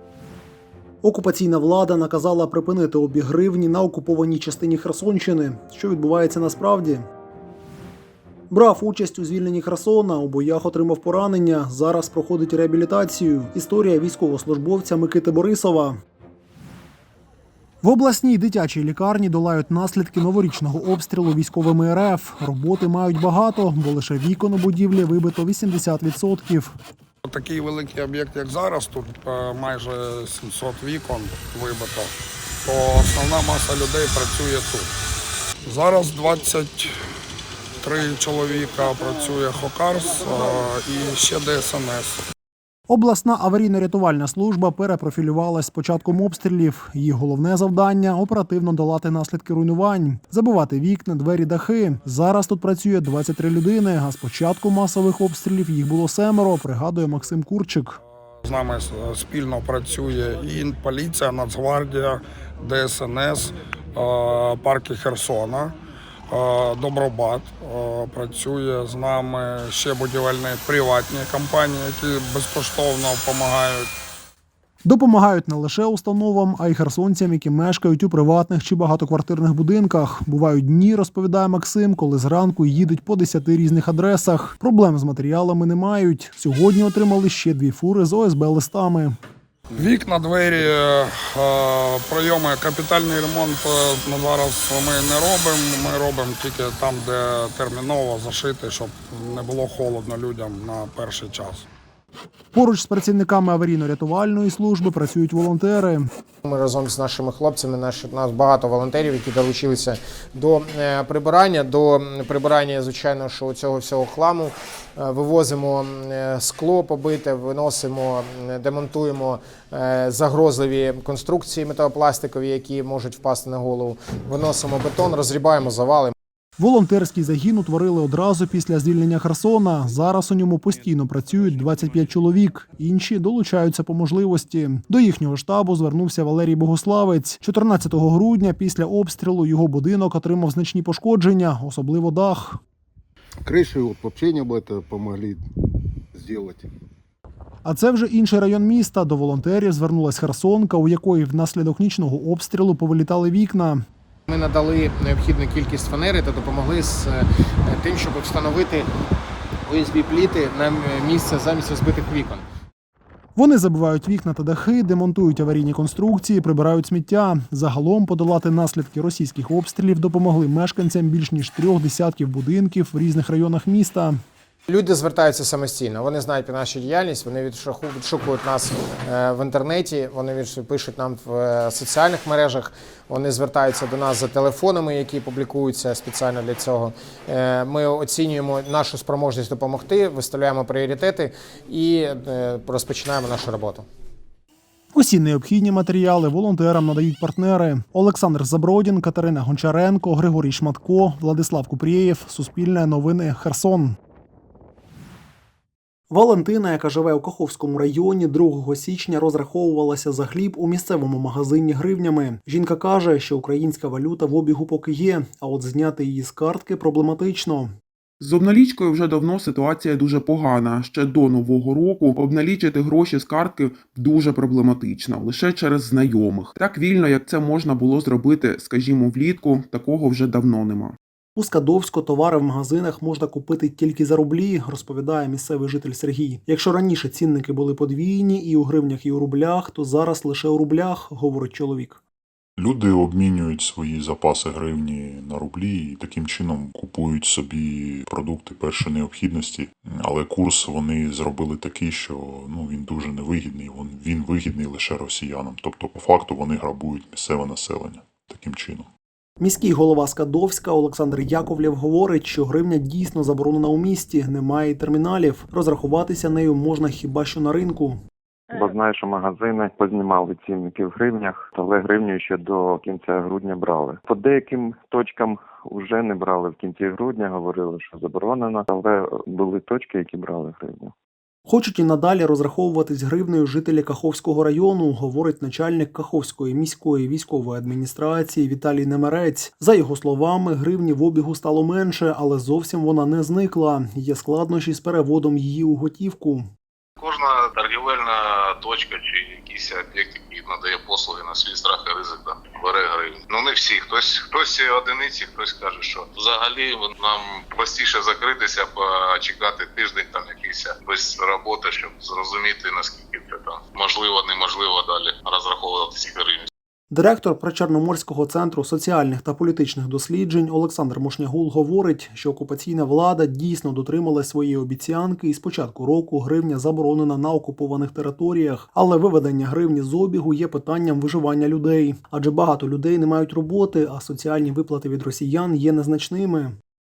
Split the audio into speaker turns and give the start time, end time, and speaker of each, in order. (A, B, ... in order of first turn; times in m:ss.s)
0:01.0-0:07.1 A
0:08.5-0:16.0 A
0:17.8-0:26.7 A
0:27.2-0:32.1 B
0:32.6-0:34.9 B
0:35.6-0:36.9 B
0:37.8-0:42.2 B
0:42.9-0:58.0 A
0:58.4-1:05.7 B
1:06.3-1:13.9 B
1:14.8-1:29.2 A
1:29.7-1:41.7 B
1:42.5-1:46.1 A
1:46.4-2:06.1 C
2:06.6-2:22.6 A
2:23.4-2:25.4 D
2:26.1-2:26.7 D
2:27.6-2:33.8 A
2:34.3-2:38.9 C
2:39.7-2:42.4 C
2:43.4-2:54.2 A
2:54.7-3:13.9 C
3:14.9-3:24.0 A
3:26.1-3:37.7 A
3:38.2-3:51.0 E
3:51.4-4:02.0 A
4:02.6-4:18.9 F
4:19.4-4:28.0 A
4:28.5-4:40.9 G
4:41.5-4:56.5 A
4:57.0-5:16.5 H
5:16.9-5:36.6 A